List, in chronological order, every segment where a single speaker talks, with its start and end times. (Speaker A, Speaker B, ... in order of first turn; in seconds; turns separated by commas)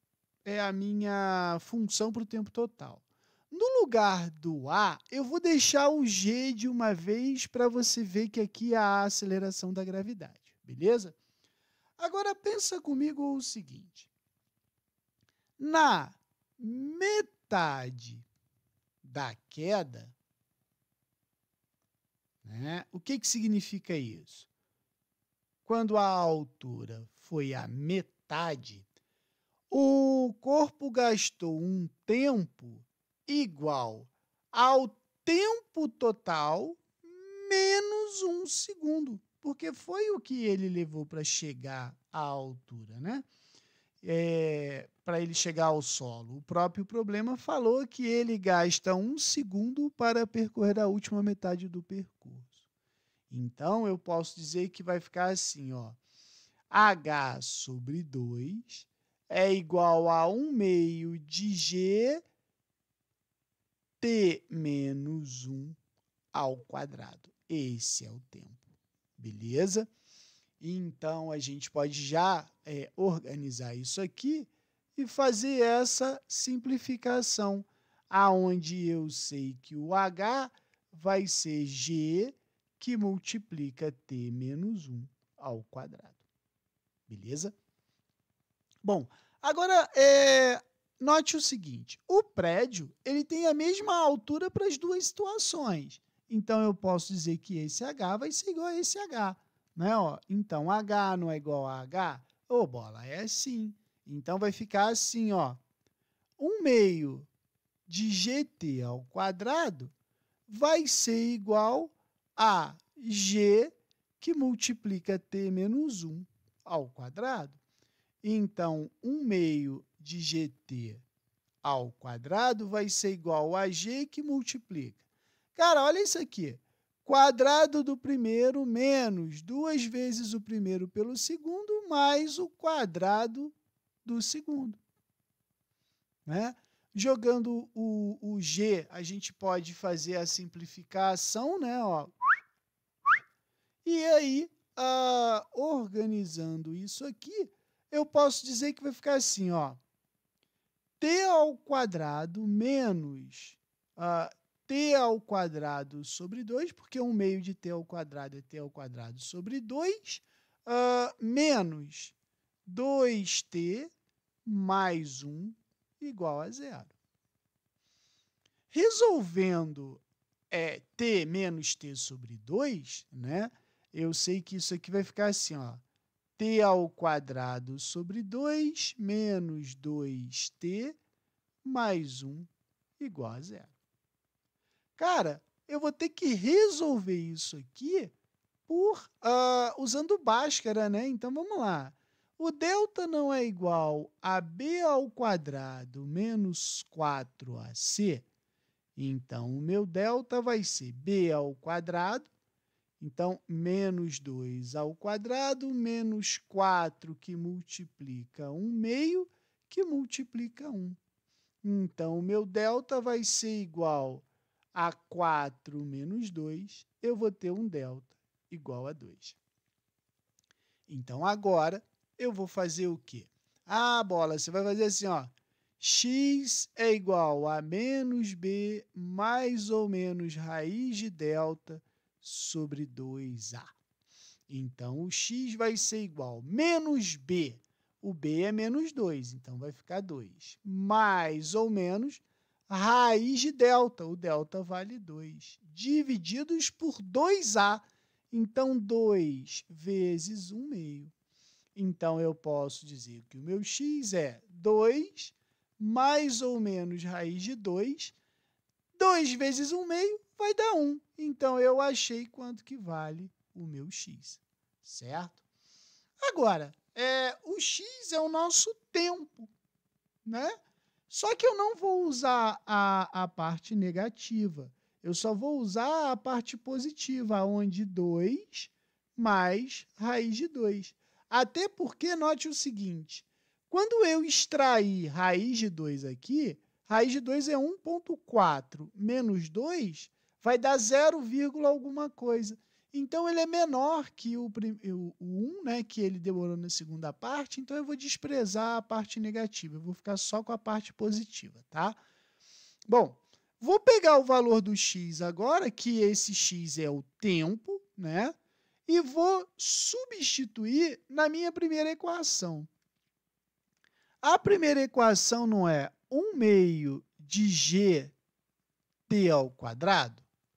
Speaker A: 0.5-11.2, Speaker A: 12.0-14.1, Speaker A: 15.6-18.3, Speaker A: 19.0-20.1, Speaker A: 22.4-24.5, Speaker A: 25.6-28.9, Speaker A: 29.7-43.3, Speaker A: 44.0-52.6, Speaker A: 53.3-56.0, Speaker A: 56.7-62.2, Speaker A: 64.0-65.8, Speaker A: 66.3-68.6, Speaker A: 69.2-69.9, Speaker A: 70.6-86.2, Speaker A: 87.1-87.5, Speaker A: 88.8-105.6, Speaker A: 106.4-107.3, Speaker A: 107.9-109.9, Speaker A: 110.5-117.6, Speaker A: 118.2-121.0, Speaker A: 121.6-125.0, Speaker A: 125.5-134.8, Speaker A: 136.3-142.1, Speaker A: 143.8-149.8, Speaker A: 151.0-162.2, Speaker A: 162.7-163.9, Speaker A: 164.4-166.9, Speaker A: 168.7-175.8, Speaker A: 176.4-181.0, Speaker A: 181.6-183.7, Speaker A: 185.0-188.1, Speaker A: 188.7-198.3, Speaker A: 199.0-202.3, Speaker A: 203.0-211.0, Speaker A: 211.6-219.4, Speaker A: 220.9-233.7, Speaker A: 234.5-251.1, Speaker A: 251.8-258.1, Speaker A: 259.0-265.4, Speaker A: 266.2-269.5, Speaker A: 270.2-270.6, Speaker A: 271.1-302.0, Speaker A: 302.9-308.3, Speaker A: 308.9-312.7, Speaker A: 314.2-318.1, Speaker A: 319.1-320.3